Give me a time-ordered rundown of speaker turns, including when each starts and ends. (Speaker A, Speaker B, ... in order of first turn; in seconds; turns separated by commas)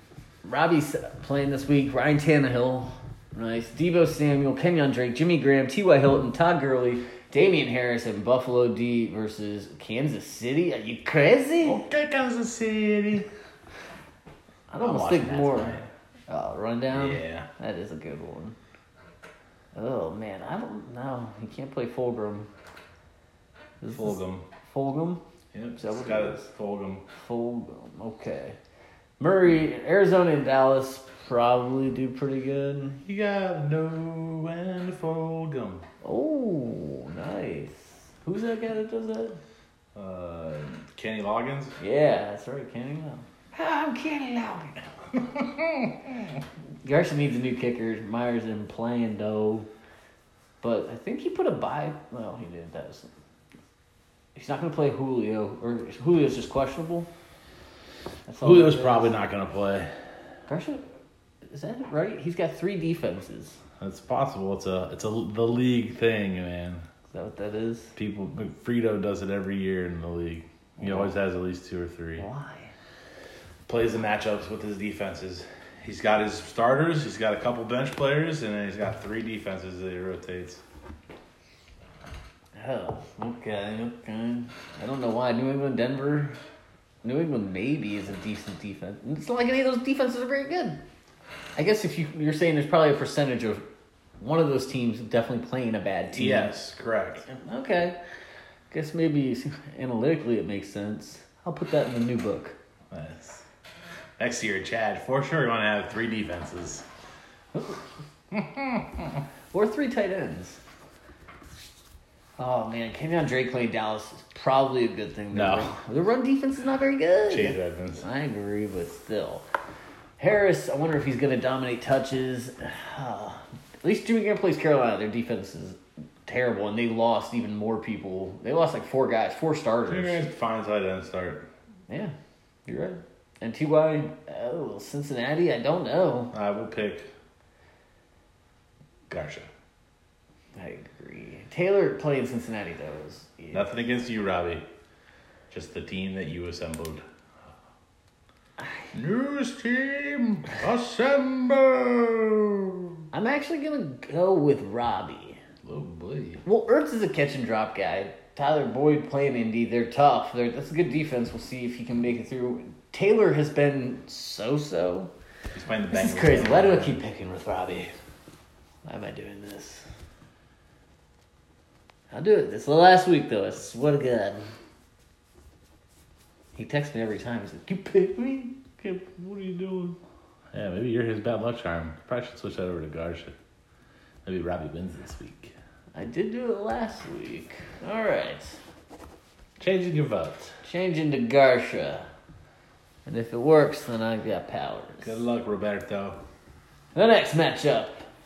Speaker A: 0.4-11.8, Speaker B: 11.6-13.3, Speaker A: 14.7-18.6, Speaker B: 14.8-15.9, Speaker B: 16.9-17.5, Speaker A: 19.7-22.5, Speaker A: 23.8-25.2, Speaker B: 23.9-24.5, Speaker B: 25.5-27.0, Speaker A: 25.8-26.5, Speaker A: 27.2-28.6, Speaker A: 29.2-33.0, Speaker B: 33.0-35.8, Speaker A: 36.0-39.4, Speaker B: 40.0-41.8, Speaker A: 41.8-44.8, Speaker B: 45.3-45.9, Speaker A: 46.8-49.7, Speaker A: 50.6-53.1, Speaker A: 54.4-57.1, Speaker A: 58.3-59.2, Speaker B: 58.4-59.9, Speaker A: 60.5-60.8, Speaker A: 61.5-63.6, Speaker B: 63.8-66.8, Speaker A: 67.1-68.0, Speaker B: 68.0-72.3, Speaker A: 70.8-71.1, Speaker A: 72.2-72.7, Speaker B: 73.7-80.6, Speaker A: 82.5-86.4, Speaker A: 87.0-90.8, Speaker A: 91.6-93.6, Speaker A: 94.2-96.5, Speaker B: 96.1-97.2, Speaker A: 97.2-98.0, Speaker A: 98.7-102.6, Speaker B: 102.9-103.4, Speaker B: 104.2-106.9, Speaker A: 107.5-107.8, Speaker B: 108.3-109.2, Speaker A: 109.5-110.6, Speaker A: 112.4-119.5, Speaker B: 115.3-115.7, Speaker B: 117.3-118.0, Speaker A: 120.2-130.2, Speaker B: 129.9-131.5, Speaker A: 132.7-136.3, Speaker B: 136.3-137.1, Speaker B: 139.1-139.5, Speaker A: 140.6-143.7, Speaker B: 143.5-144.6, Speaker B: 145.5-147.0, Speaker B: 148.9-153.0, Speaker A: 153.1-155.4, Speaker B: 155.6-156.4, Speaker A: 156.4-165.1, Speaker B: 165.5-167.0, Speaker A: 165.9-167.9, Speaker A: 168.8-169.9, Speaker A: 172.1-174.5, Speaker A: 176.6-180.0, Speaker B: 180.5-183.3, Speaker B: 184.2-185.5, Speaker A: 185.9-188.6, Speaker B: 189.6-190.6, Speaker A: 190.7-192.1, Speaker A: 193.1-195.2, Speaker B: 195.0-196.2, Speaker A: 196.9-198.1